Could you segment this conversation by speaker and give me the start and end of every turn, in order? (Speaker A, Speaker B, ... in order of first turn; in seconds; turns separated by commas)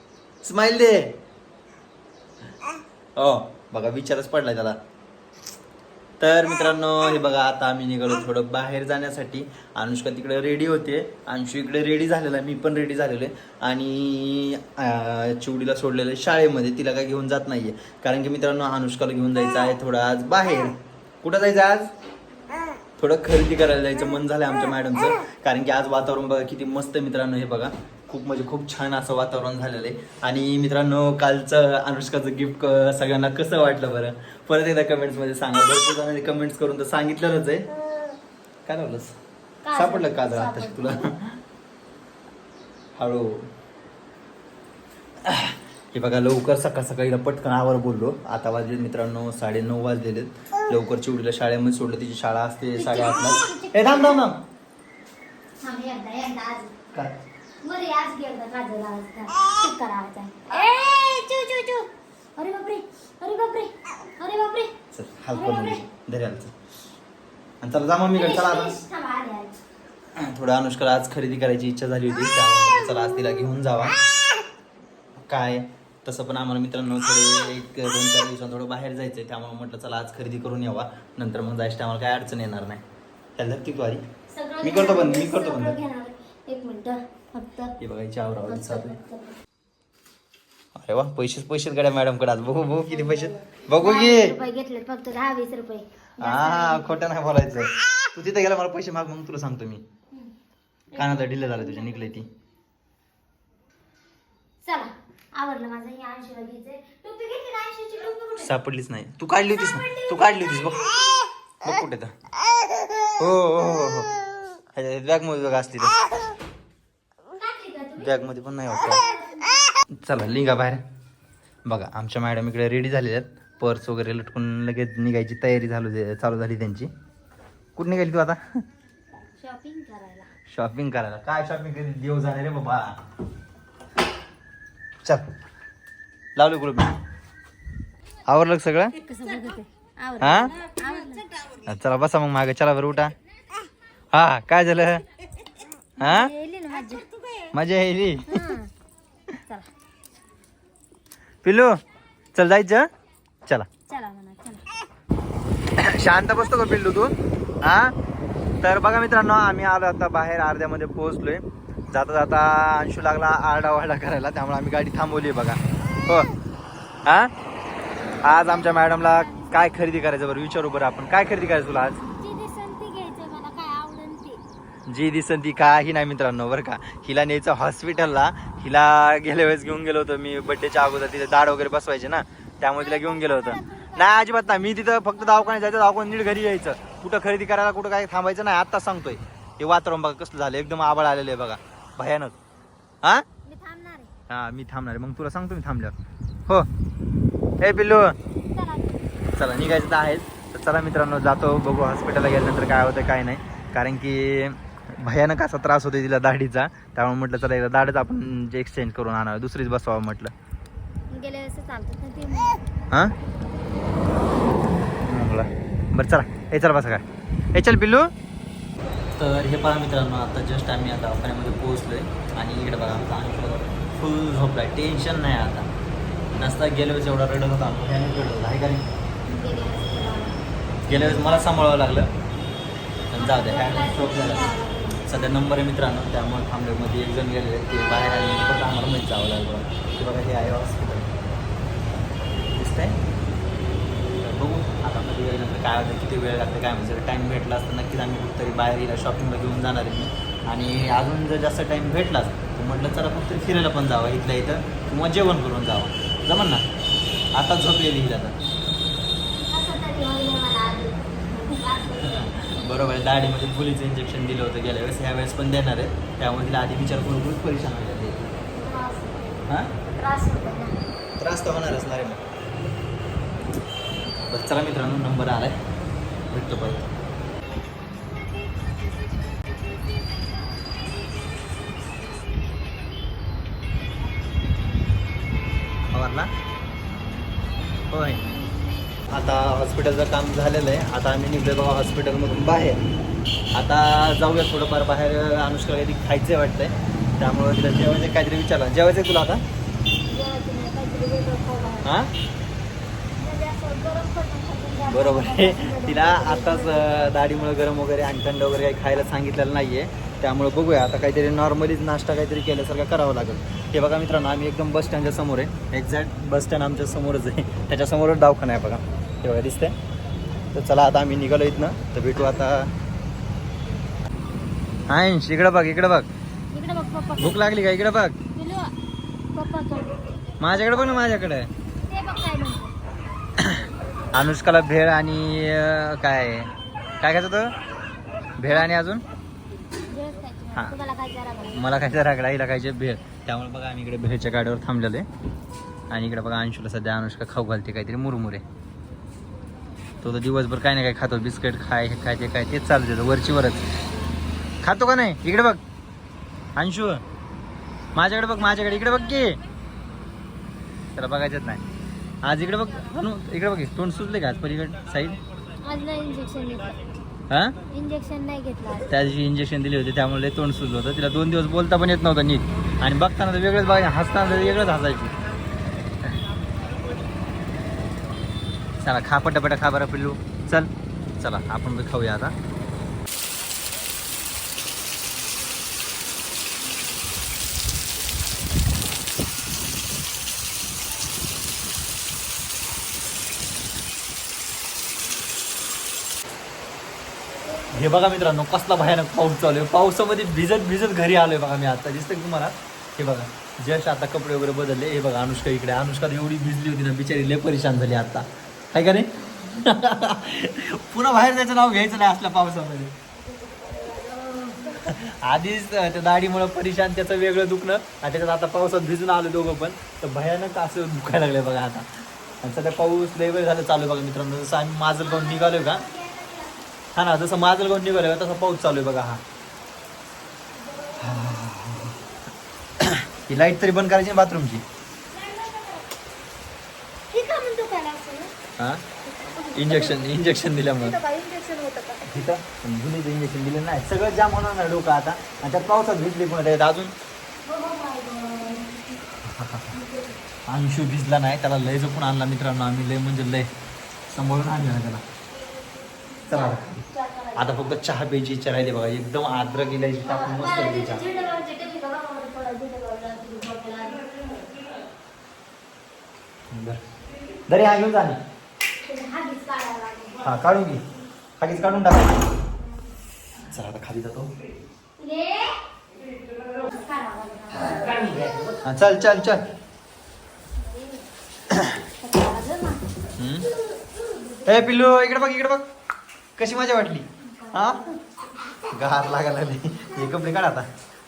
Speaker A: 0.4-1.2, Speaker A: 3.2-4.8, Speaker A: 6.2-21.9, Speaker A: 23.0-37.7, Speaker B: 37.9-38.2, Speaker A: 38.7-39.1, Speaker B: 39.6-41.0, Speaker A: 39.8-41.4, Speaker A: 43.0-43.5, Speaker A: 45.2-54.4, Speaker B: 52.8-54.2, Speaker B: 55.6-56.7, Speaker B: 57.6-64.7, Speaker A: 64.9-66.5, Speaker B: 65.3-65.9, Speaker A: 67.6-68.8, Speaker B: 68.1-69.6, Speaker A: 70.2-74.0, Speaker A: 75.3-82.8, Speaker A: 83.4-84.0, Speaker B: 84.3-87.8, Speaker A: 84.6-85.8, Speaker A: 87.8-89.0, Speaker B: 88.5-89.4, Speaker A: 90.8-94.3, Speaker B: 92.9-97.0, Speaker A: 96.2-99.8, Speaker B: 100.9-102.2, Speaker A: 100.9-102.3, Speaker B: 104.6-108.5, Speaker A: 108.4-110.9, Speaker B: 109.5-111.0, Speaker A: 111.6-112.1, Speaker A: 113.2-114.1, Speaker A: 114.7-116.0, Speaker B: 117.3-119.7, Speaker A: 118.0-119.0, Speaker A: 119.9-120.8, Speaker A: 121.7-126.9, Speaker A: 127.8-128.5, Speaker B: 129.4-130.3, Speaker A: 130.5-133.0, Speaker A: 136.4-137.0, Speaker A: 138.3-139.0, Speaker B: 139.0-141.3, Speaker A: 140.2-140.5, Speaker A: 141.7-143.1, Speaker A: 144.1-145.0, Speaker B: 146.0-147.1, Speaker A: 146.0-146.3, Speaker A: 147.5-148.4, Speaker B: 148.3-148.7, Speaker A: 151.4-151.8, Speaker A: 152.3-152.9, Speaker B: 153.9-154.6, Speaker A: 155.8-157.9, Speaker A: 158.6-166.3, Speaker A: 167.1-167.3, Speaker B: 168.2-169.8, Speaker A: 168.2-172.0, Speaker B: 171.9-174.4, Speaker A: 174.9-192.4, Speaker B: 182.8-184.4, Speaker B: 185.2-185.7, Speaker B: 193.4-194.1, Speaker A: 194.3-195.9, Speaker A: 197.6-198.2, Speaker B: 198.5-199.0, Speaker A: 199.4-210.3, Speaker B: 211.1-212.6, Speaker A: 215.0-218.1, Speaker A: 219.1-225.7, Speaker A: 226.3-228.9, Speaker B: 229.3-231.6, Speaker A: 230.9-232.1, Speaker A: 233.1-234.5, Speaker B: 233.2-235.1, Speaker A: 235.1-241.2, Speaker A: 242.5-243.0, Speaker A: 244.2-256.6, Speaker A: 257.4-258.4, Speaker B: 259.4-262.4, Speaker A: 262.0-268.3, Speaker B: 268.5-270.8, Speaker A: 269.5-269.7, Speaker A: 271.2-272.2, Speaker A: 274.3-275.6, Speaker A: 276.3-276.9, Speaker A: 285.9-286.3, Speaker A: 287.9-288.2, Speaker A: 289.1-292.8, Speaker A: 293.5-299.4, Speaker B: 300.1-301.9, Speaker A: 301.8-302.1, Speaker B: 303.1-307.2, Speaker A: 304.9-319.8, Speaker A: 320.5-322.7, Speaker A: 324.9-326.1, Speaker B: 326.5-327.4, Speaker A: 327.2-328.2, Speaker B: 328.4-328.7, Speaker B: 329.3-330.0, Speaker A: 330.4-331.5, Speaker B: 331.9-332.8, Speaker A: 334.1-337.5, Speaker A: 338.4-339.0, Speaker B: 339.9-341.7, Speaker A: 341.5-345.1, Speaker A: 345.9-348.4, Speaker A: 350.0-353.6, Speaker A: 354.6-355.6, Speaker A: 356.6-357.0, Speaker A: 357.9-359.4, Speaker A: 360.9-361.6, Speaker A: 362.2-365.2, Speaker B: 365.6-366.9, Speaker A: 367.3-367.6, Speaker B: 367.7-368.9, Speaker A: 368.9-375.2, Speaker A: 378.8-382.4, Speaker B: 397.5-398.1, Speaker A: 397.7-412.9, Speaker B: 413.3-415.0, Speaker A: 414.8-421.9, Speaker A: 422.4-425.9, Speaker B: 425.0-426.7, Speaker A: 426.9-429.2, Speaker B: 430.6-431.4, Speaker A: 431.0-432.0, Speaker A: 432.8-434.6, Speaker B: 435.1-435.9, Speaker B: 437.1-438.3, Speaker A: 438.6-438.8, Speaker B: 439.1-440.1, Speaker A: 439.6-441.0, Speaker B: 440.7-442.3, Speaker A: 442.1-446.9, Speaker B: 447.5-448.8, Speaker A: 449.2-449.8, Speaker B: 449.7-450.2, Speaker A: 450.5-453.5, Speaker A: 454.1-455.0, Speaker B: 456.3-457.7, Speaker A: 456.3-456.8, Speaker A: 457.4-461.0, Speaker B: 459.9-464.2, Speaker A: 466.5-466.8, Speaker A: 467.5-468.2, Speaker B: 468.8-470.4, Speaker A: 470.2-470.8, Speaker A: 471.4-472.3, Speaker A: 473.4-474.3, Speaker B: 475.0-475.6, Speaker B: 476.5-478.5, Speaker A: 478.6-479.5, Speaker B: 480.6-481.1, Speaker A: 481.5-481.8, Speaker B: 481.9-482.9, Speaker A: 483.2-483.5, Speaker B: 483.8-484.6, Speaker A: 484.4-485.7, Speaker A: 486.4-487.9, Speaker B: 487.2-488.2, Speaker A: 488.7-490.7